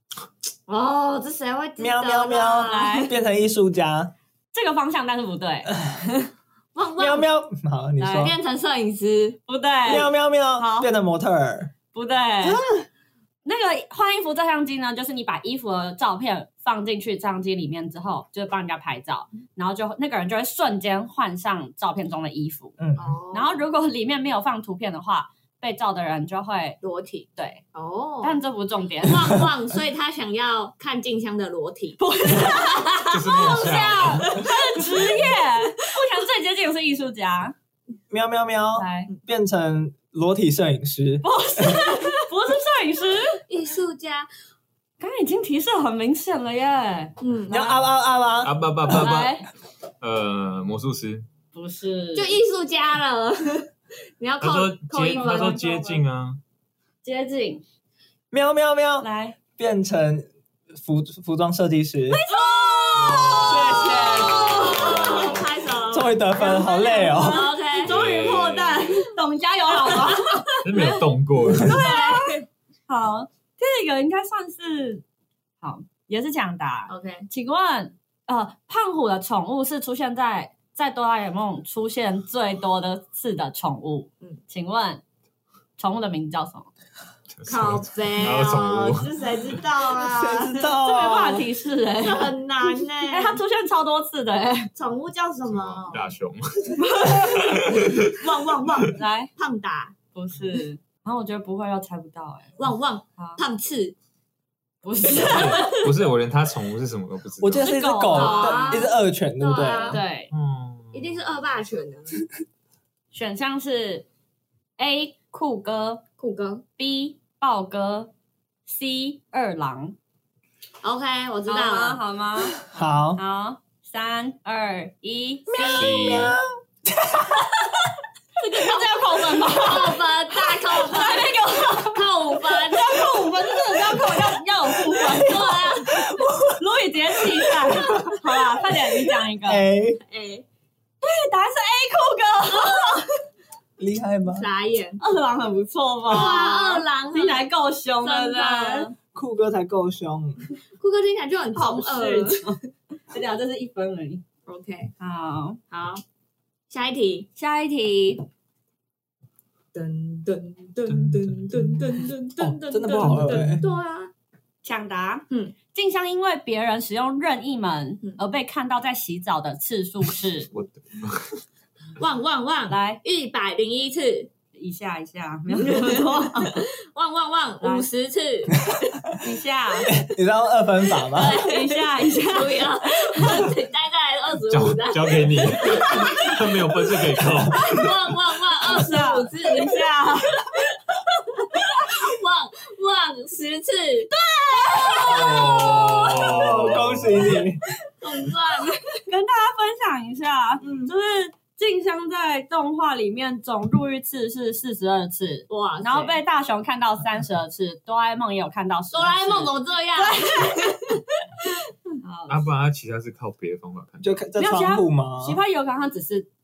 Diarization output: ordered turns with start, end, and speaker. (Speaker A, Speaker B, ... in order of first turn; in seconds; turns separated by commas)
Speaker A: 0.7-3.1, Speaker B: 1.8-4.1, Speaker C: 2.7-3.1, Speaker C: 4.5-6.3, Speaker A: 6.8-7.3, Speaker B: 7.0-8.4, Speaker C: 8.0-8.2, Speaker A: 8.0-9.4, Speaker C: 9.5-10.9, Speaker B: 9.9-11.7, Speaker C: 11.9-12.6, Speaker B: 12.4-12.9, Speaker C: 13.4-22.8, Speaker B: 22.8-23.1, Speaker A: 23.0-23.6, Speaker C: 23.3-26.8, Speaker A: 26.8-28.4, Speaker C: 27.4-27.6, Speaker C: 28.2-29.4, Speaker A: 29.0-32.0, Speaker C: 32.0-37.5, Speaker D: 33.1-34.4, Speaker A: 33.3-35.1, Speaker B: 38.1-41.9, Speaker C: 38.8-39.1, Speaker C: 41.2-43.4, Speaker A: 43.5-44.3, Speaker C: 45.0-47.7, Speaker A: 47.2-47.7, Speaker B: 47.5-49.1, Speaker D: 48.4-49.4, Speaker C: 49.0-49.5, Speaker D: 50.0-51.3, Speaker C: 51.5-52.4, Speaker A: 52.1-56.0, Speaker D: 54.4-56.4, Speaker C: 55.1-55.9, Speaker C: 57.0-57.6, Speaker B: 58.3-62.2, Speaker C: 59.0-59.4, Speaker C: 62.1-65.2, Speaker A: 62.3-66.2, Speaker D: 63.0-63.9, Speaker B: 63.4-64.9, Speaker D: 64.6-65.4, Speaker B: 65.9-67.5, Speaker C: 66.3-71.0, Speaker A: 67.0-67.9, Speaker D: 67.8-69.0, Speaker A: 69.8-70.8, Speaker D: 70.6-71.9, Speaker C: 71.6-75.0, Speaker A: 71.6-72.5, Speaker C: 75.6-85.0, Speaker A: 76.9-77.3, Speaker C: 85.8-86.7, Speaker D: 87.4-89.6, Speaker A: 87.5-90.7, Speaker B: 90.0-91.5, Speaker C: 90.8-92.3, Speaker A: 92.0-93.4, Speaker C: 93.1-94.7, Speaker A: 94.8-96.1, Speaker D: 95.5-98.0, Speaker C: 96.8-97.4, Speaker A: 97.2-100.0, Speaker C: 99.0-99.3, Speaker C: 100.1-102.6, Speaker A: 102.6-104.0, Speaker C: 104.8-105.8, Speaker D: 105.2-107.8, Speaker A: 105.4-105.7, Speaker B: 107.4-110.0, Speaker C: 107.6-108.9, Speaker A: 108.1-110.0, Speaker C: 109.8-110.3, Speaker D: 110.3-111.2, Speaker A: 110.9-112.2, Speaker C: 113.1-114.1, Speaker C: 114.8-116.0, Speaker A: 116.2-116.6, Speaker C: 116.8-118.1, Speaker C: 118.7-120.0, Speaker A: 120.8-122.0, Speaker C: 121.5-125.8, Speaker B: 122.7-123.2, Speaker B: 125.5-127.5, Speaker A: 125.5-126.1, Speaker D: 125.7-126.4, Speaker C: 128.4-135.7, Speaker A: 128.7-133.2, Speaker A: 135.0-136.1, Speaker B: 135.1-136.6, Speaker C: 136.6-139.6, Speaker B: 137.2-138.2, Speaker B: 138.7-140.0, Speaker A: 140.0-140.4, Speaker C: 141.0-143.1, Speaker A: 142.6-142.9, Speaker B: 143.8-144.5, Speaker A: 144.3-145.0, Speaker C: 145.0-148.9, Speaker A: 146.1-147.4, Speaker A: 148.0-148.9, Speaker B: 149.1-150.4, Speaker A: 150.8-152.5, Speaker C: 151.5-154.2, Speaker A: 154.5-154.9, Speaker C: 155.0-155.6, Speaker A: 155.7-156.0, Speaker A: 156.7-157.3, Speaker C: 157.4-158.2, Speaker A: 159.7-164.1, Speaker D: 160.9-161.4, Speaker B: 162.4-163.6, Speaker C: 162.9-163.5, Speaker C: 164.6-170.5, Speaker D: 170.5-171.4, Speaker A: 172.0-174.3, Speaker C: 172.7-173.0, Speaker C: 174.6-176.7, Speaker A: 175.6-178.8, Speaker C: 177.6-177.9, Speaker C: 179.2-179.9, Speaker B: 179.9-181.4, Speaker A: 181.0-186.3, Speaker C: 181.3-183.4, Speaker D: 184.5-188.0, Speaker C: 185.9-186.1, Speaker A: 187.5-194.1, Speaker C: 188.6-190.3, Speaker C: 194.1-195.8, Speaker A: 194.6-196.5, Speaker D: 195.0-197.4, Speaker B: 196.2-197.6, Speaker A: 198.0-199.0, Speaker C: 199.1-210.8, Speaker A: 200.6-200.9, Speaker A: 205.5-206.2, Speaker A: 208.9-211.4, Speaker C: 212.0-212.5, Speaker D: 212.3-214.2, Speaker B: 214.0-215.4, Speaker C: 214.4-216.3